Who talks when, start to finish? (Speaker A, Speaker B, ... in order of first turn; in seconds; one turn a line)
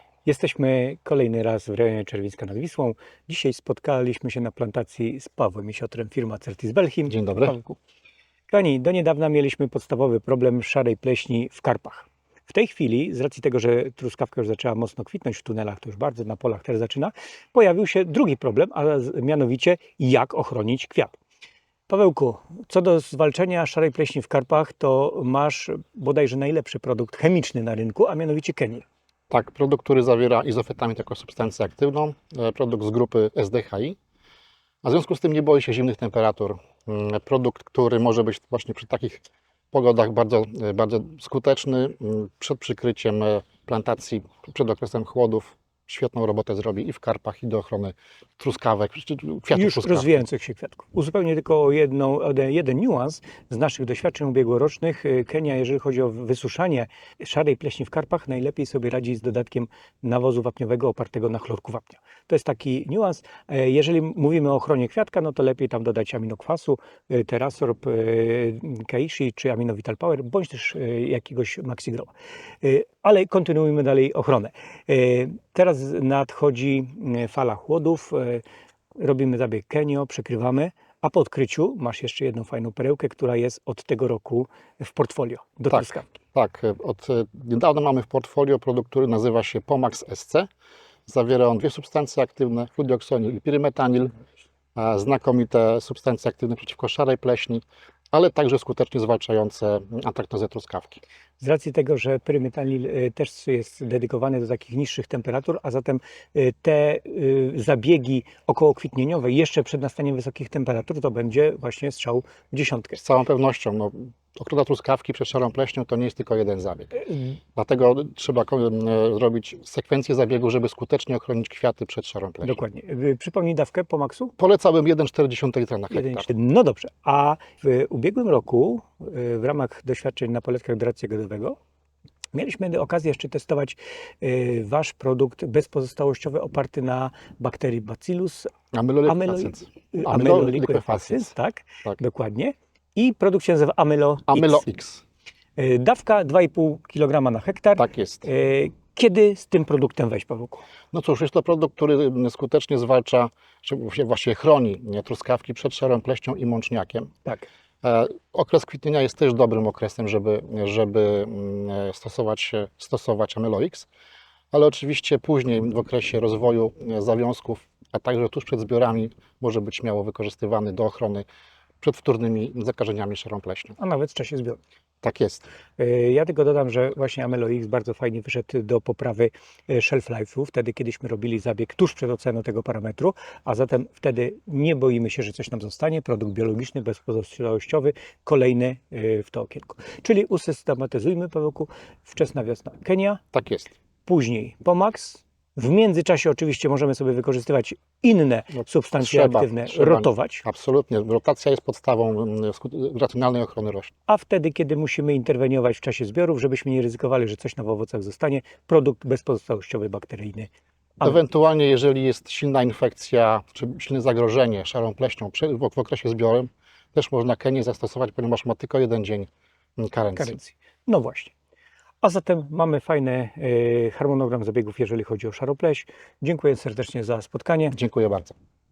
Speaker A: 0.2-7.8
Speaker B: 7.1-7.5
Speaker A: 8.5-21.1
Speaker A: 21.9-28.8
Speaker B: 29.3-34.0
Speaker B: 34.8-50.2
Speaker A: 49.5-72.1
Speaker A: 72.6-78.4
Speaker A: 79.0-86.1
Speaker B: 85.7-90.5
Speaker B: 91.1-94.1
Speaker B: 94.8-101.0
Speaker A: 101.4-113.0
Speaker B: 113.0-117.0
Speaker B: 117.5-122.6
Speaker A: 122.4-124.3
Speaker B: 124.4-126.3
Speaker A: 125.9-131.6
Speaker A: 132.3-138.5
Speaker B: 138.7-141.3
Speaker A: 139.1-144.6
Speaker B: 144.3-145.0
Speaker A: 145.6-150.6
Speaker B: 147.8-148.3
Speaker B: 150.9-157.1
Speaker B: 157.8-163.9
Speaker B: 164.5-171.2
Speaker B: 171.8-173.8
Speaker A: 173.8-174.6
Speaker B: 175.0-175.5
Speaker A: 175.8-193.2
Speaker B: 193.3-193.7
Speaker A: 194.1-200.4
Speaker B: 198.5-203.9
Speaker A: 204.1-211.2
Speaker B: 211.0-220.4
Speaker A: 220.2-221.3
Speaker A: 222.0-227.7
Speaker B: 227.7-228.3